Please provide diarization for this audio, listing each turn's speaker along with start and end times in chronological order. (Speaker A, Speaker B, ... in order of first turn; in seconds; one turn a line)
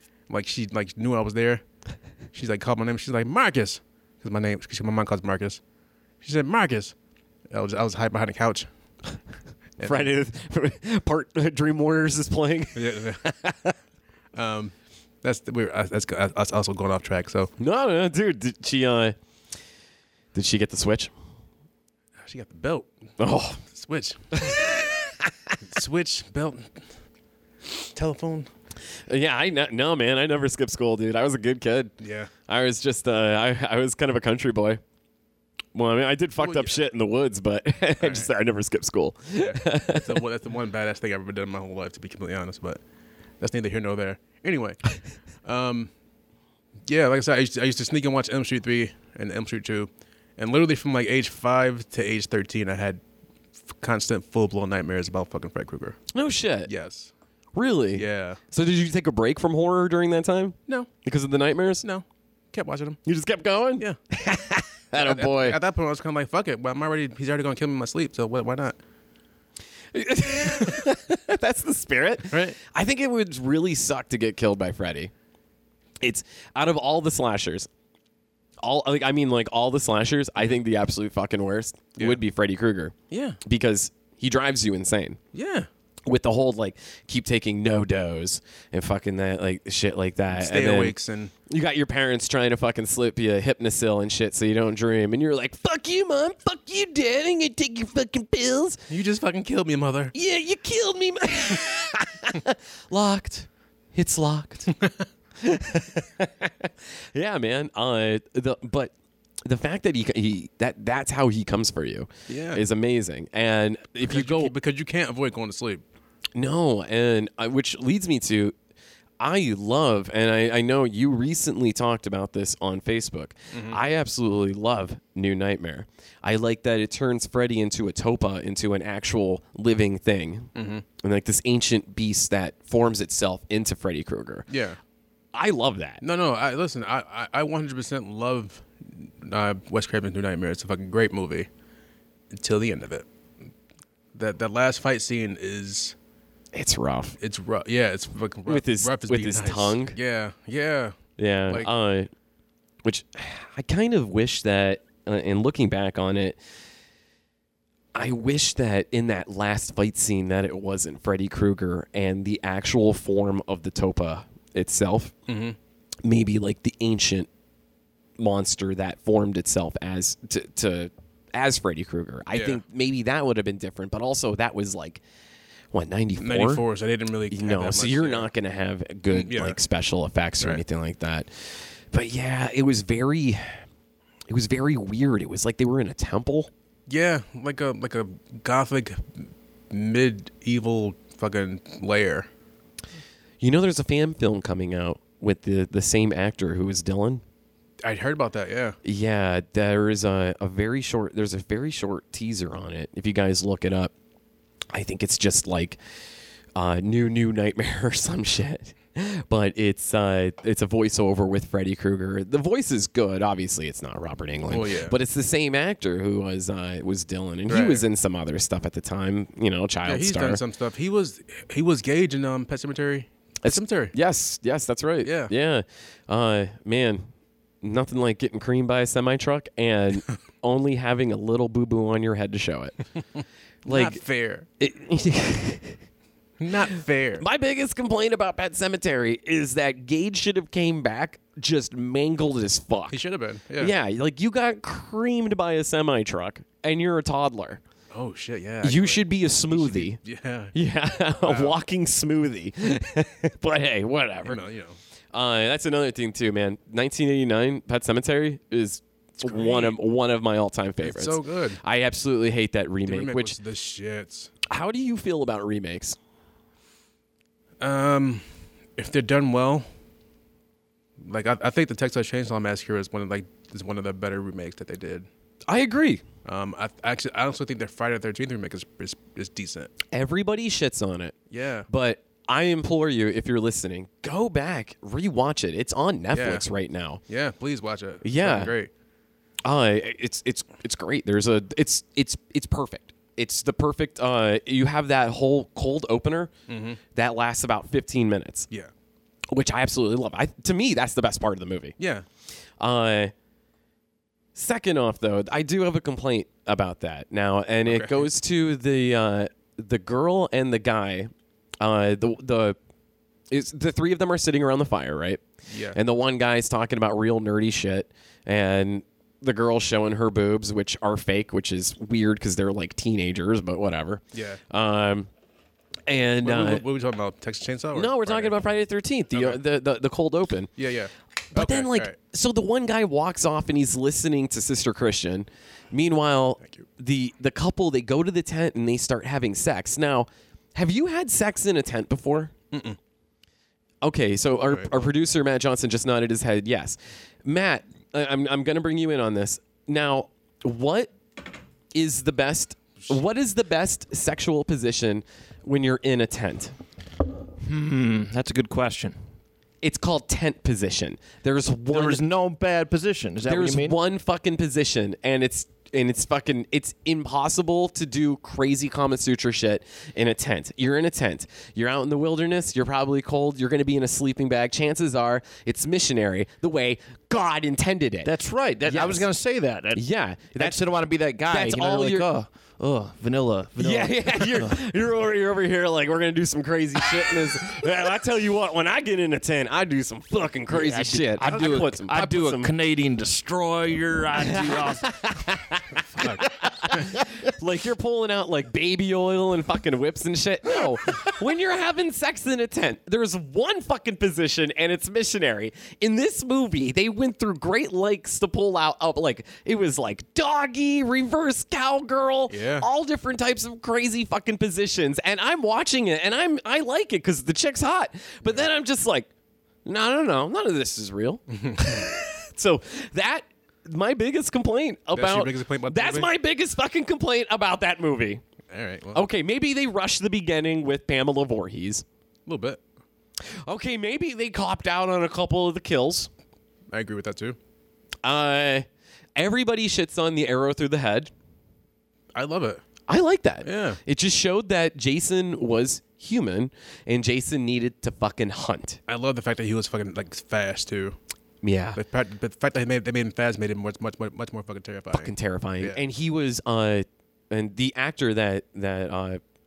Speaker A: 0.3-1.6
Speaker A: 2.3-5.6
Speaker A: 6.2-6.9
Speaker A: 7.5-8.7
Speaker A: 9.8-10.1
Speaker B: 9.8-13.7
Speaker A: 12.7-13.2
Speaker A: 14.3-17.5
Speaker B: 17.6-19.1
Speaker B: 20.3-21.1
Speaker A: 22.2-22.9
Speaker B: 23.2-23.6
Speaker A: 23.7-24.7
Speaker B: 24.3-25.5
Speaker A: 25.6-26.8
Speaker A: 27.9-28.5
Speaker B: 29.1-31.9
Speaker A: 32.0-32.3
Speaker B: 32.5-34.8
Speaker B: 35.7-40.2
Speaker A: 36.4-36.8
Speaker A: 38.0-38.3
Speaker A: 39.4-42.8
Speaker A: 43.4-44.8
Speaker A: 45.4-45.9
Speaker A: 46.9-53.0
Speaker A: 53.7-56.0
Speaker B: 56.1-56.7
Speaker A: 56.7-57.1
Speaker B: 57.5-61.8
Speaker A: 57.9-58.4
Speaker A: 61.8-63.0
Speaker B: 63.0-65.6
Speaker A: 64.9-68.8
Speaker B: 69.9-75.1
Speaker A: 72.3-72.6
Speaker B: 76.0-77.7
Speaker B: 78.6-85.2
Speaker A: 82.0-82.2
Speaker A: 83.1-83.4
Speaker A: 85.3-85.7
Speaker B: 86.0-90.9
Speaker A: 90.3-91.3
Speaker B: 91.5-98.8
Speaker A: 98.9-100.1
Speaker B: 100.1-104.7
Speaker A: 104.8-105.0
Speaker B: 105.4-108.9
Speaker B: 109.4-114.5
Speaker A: 112.3-112.6
Speaker A: 114.0-115.8
Speaker B: 116.3-118.5
Speaker B: 119.2-134.5
Speaker A: 123.5-123.8
Speaker A: 130.5-130.8
Speaker A: 134.5-134.8
Speaker B: 135.3-136.0
Speaker A: 136.0-141.5
Speaker A: 142.3-143.1
Speaker A: 144.1-145.9
Speaker B: 146.5-147.2
Speaker A: 147.2-151.0
Speaker B: 148.5-150.0
Speaker B: 151.2-152.1
Speaker B: 152.8-156.4
Speaker B: 157.9-165.1
Speaker A: 165.3-165.6
Speaker B: 166.0-167.3
Speaker B: 168.2-175.0
Speaker A: 172.3-172.6
Speaker B: 175.7-176.6
Speaker A: 176.2-178.3
Speaker B: 177.3-183.6
Speaker A: 179.1-179.6
Speaker B: 184.3-186.5
Speaker A: 186.9-192.3
Speaker B: 193.4-197.2
Speaker A: 197.8-198.8
Speaker B: 198.8-203.9
Speaker B: 204.7-205.8
Speaker B: 206.6-220.4
Speaker A: 214.5-214.9
Speaker A: 217.5-217.8
Speaker A: 219.8-223.9
Speaker B: 223.4-227.1
Speaker A: 225.0-225.3
Speaker B: 227.6-232.8
Speaker A: 233.6-234.5
Speaker B: 233.7-234.0
Speaker B: 234.6-235.8
Speaker A: 236.4-237.2
Speaker B: 237.2-243.0
Speaker A: 242.9-243.7
Speaker B: 243.6-247.6
Speaker A: 247.9-250.5
Speaker B: 248.6-250.0
Speaker B: 250.5-254.4
Speaker A: 251.2-251.6
Speaker A: 254.2-254.8
Speaker B: 255.1-263.4
Speaker A: 259.2-259.8
Speaker A: 260.8-261.6
Speaker A: 262.9-264.3
Speaker B: 264.5-266.0
Speaker A: 267.6-268.2
Speaker A: 268.8-269.6
Speaker A: 271.0-275.1
Speaker B: 275.5-276.0
Speaker A: 276.2-279.7
Speaker B: 279.9-281.1
Speaker A: 281.3-281.7
Speaker B: 281.7-287.0
Speaker A: 286.1-286.4
Speaker A: 287.1-288.7
Speaker B: 288.0-288.5
Speaker B: 289.4-296.3
Speaker A: 296.5-296.8
Speaker B: 296.9-298.5
Speaker B: 299.3-301.8
Speaker A: 301.8-302.0
Speaker B: 302.6-303.1
Speaker B: 304.3-312.6
Speaker A: 307.6-308.1
Speaker B: 313.3-325.1
Speaker A: 315.5-315.8
Speaker A: 324.1-324.4
Speaker B: 325.9-326.6
Speaker A: 326.2-328.4
Speaker B: 327.7-330.5
Speaker A: 329.1-329.4
Speaker A: 330.6-331.9
Speaker B: 331.3-342.3
Speaker A: 336.4-336.7
Speaker A: 342.5-342.8
Speaker B: 343.8-350.9
Speaker A: 344.4-344.7
Speaker B: 351.7-356.5
Speaker C: 357.4-359.0
Speaker B: 359.6-362.0
Speaker C: 361.7-363.8
Speaker B: 363.2-378.1
Speaker C: 378.0-384.6
Speaker B: 378.6-379.1
Speaker B: 379.7-380.6
Speaker B: 381.2-382.1
Speaker B: 383.6-392.5
Speaker C: 390.5-395.2
Speaker A: 391.2-391.6
Speaker B: 394.2-419.1
Speaker A: 396.0-396.9
Speaker A: 412.3-412.6
Speaker B: 419.6-428.2
Speaker A: 421.3-421.9
Speaker A: 424.9-426.1
Speaker A: 428.5-429.1
Speaker B: 428.9-431.8
Speaker A: 432.2-432.6
Speaker B: 433.4-436.1
Speaker A: 436.7-437.4
Speaker B: 438.0-441.1
Speaker A: 442.1-442.6
Speaker B: 442.9-448.8
Speaker A: 443.4-443.8
Speaker A: 448.9-451.0
Speaker B: 451.4-451.8
Speaker A: 451.8-455.8
Speaker B: 454.9-459.2